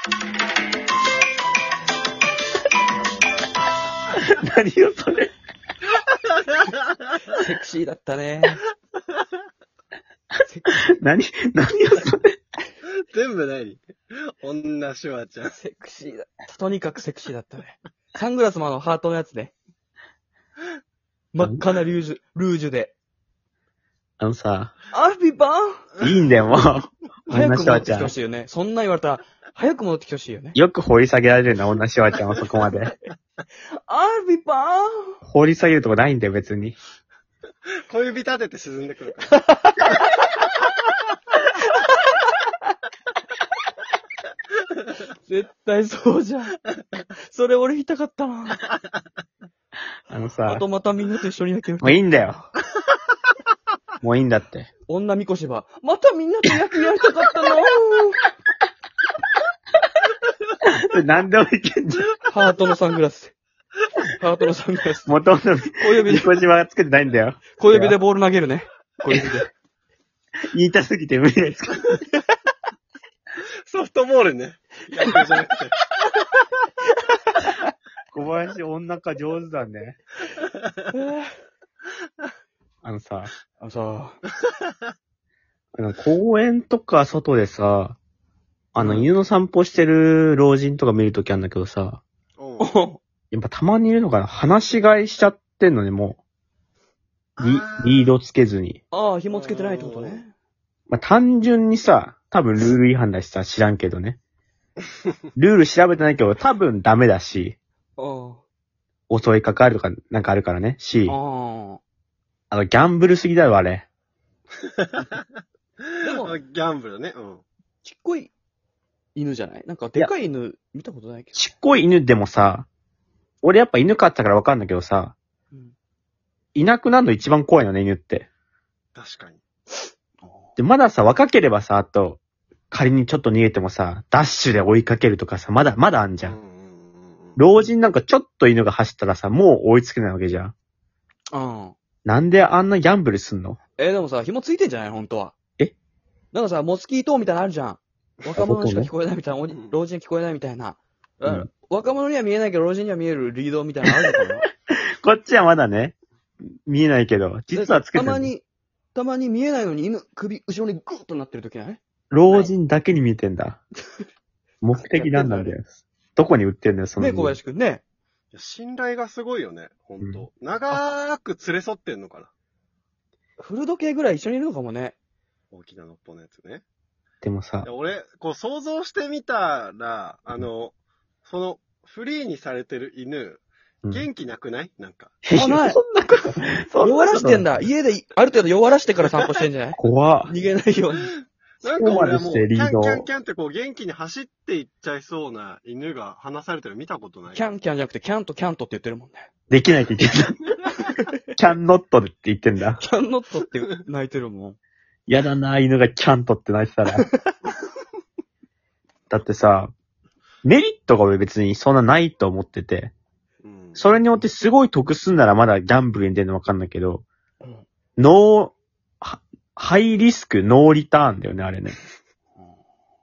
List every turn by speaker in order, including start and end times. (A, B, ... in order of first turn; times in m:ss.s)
0:04.1-0:05.3 A
0:07.3-0:08.6 B
0:10.4-0:10.8 B
0:10.9-0:12.4 A
0:13.1-0:15.6 C
0:15.6-0:19.5 B
0:21.3-0:22.9 B
0:24.2-0:24.7 A
0:24.9-0:25.9 B
0:26.0-0:28.1 A
0:27.3-0:30.6 B
0:30.5-0:32.9 A
0:33.9-0:35.2 B
0:35.2-0:36.8 A
0:37.9-0:39.4 C
0:39.4-0:39.9 B
0:41.8-0:42.1 B
0:45.2-0:46.6 B
0:47.2-0:48.6 B
0:50.1-0:50.6 A
0:50.5-0:52.0 B
0:51.8-0:52.4 A
0:54.0-0:54.7 A
0:54.9-0:58.2 B
1:00.6-1:02.1 A
1:02.3-1:03.3 B
1:04.1-1:05.1 B
1:05.0-1:08.0 A
1:05.8-1:06.3 B
1:07.6-1:09.5 B
1:10.5-1:11.9 A
1:13.6-1:15.8 C
1:18.1-1:20.0 A
1:20.9-1:21.3 B
1:22.8-1:23.3 A
1:23.6-1:24.2 B
1:25.7-1:28.0 A
1:28.7-1:32.0 A
1:28.8-1:29.1 B
1:32.4-1:32.7 C
1:32.6-1:33.0 B
1:33.3-1:36.2 A
1:37.4-1:38.1 C
1:37.4-1:38.8 A
1:38.9-1:40.3 B
1:39.3-1:40.2 C
1:40.9-1:44.2 A
1:45.4-1:47.6 A
1:48.0-1:48.4 B
1:49.1-1:51.2 A
1:51.1-1:51.8 B
1:52.5-1:53.9 A
1:54.6-1:55.2 C
1:55.8-1:57.4 C
1:56.0-1:56.4 B
1:57.8-1:58.3 B
1:59.1-2:01.4 B
2:01.3-2:02.7 A
2:03.4-2:05.2 A
2:06.5-2:08.3 A
2:08.9-2:09.4 C
2:10.2-2:10.5 B
2:10.6-2:16.4 A
2:16.2-2:17.4 C
2:17.4-2:20.5 A
2:21.3-2:21.8 B
2:22.0-2:23.6 A
2:23.8-2:25.3 B
2:26.3-2:34.4 B
2:28.4-2:28.9 A
2:29.5-2:29.8 C
2:35.0-2:36.0 A
2:36.7-2:38.3 A
2:37.5-2:42.5 B
2:42.1-2:43.6 A
2:44.6-2:47.4 A
2:44.8-2:45.5 B
2:47.0-2:47.8 B
2:48.3-2:52.3 C
2:53.4-2:55.0 B
2:55.5-2:56.6 C
2:57.2-2:57.7 A
2:57.6-3:05.2 C
3:05.2-3:07.5 A
3:05.3-3:05.8 B
3:06.8-3:11.1 B
3:09.0-3:09.4 C
3:09.8-3:10.3 A
3:11.6-3:17.4 C
3:11.6-3:13.1 A
3:17.3-3:19.3 B
3:19.5-3:20.6 A
3:20.8-3:21.1 B
3:21.3-3:22.8 A
3:22.8-3:24.6 B
3:25.1-3:27.0 A
3:29.1-3:29.7 A
3:30.4-3:32.9 A
3:33.4-3:33.9 C
3:33.8-3:37.0 A
3:38.0-3:41.8 A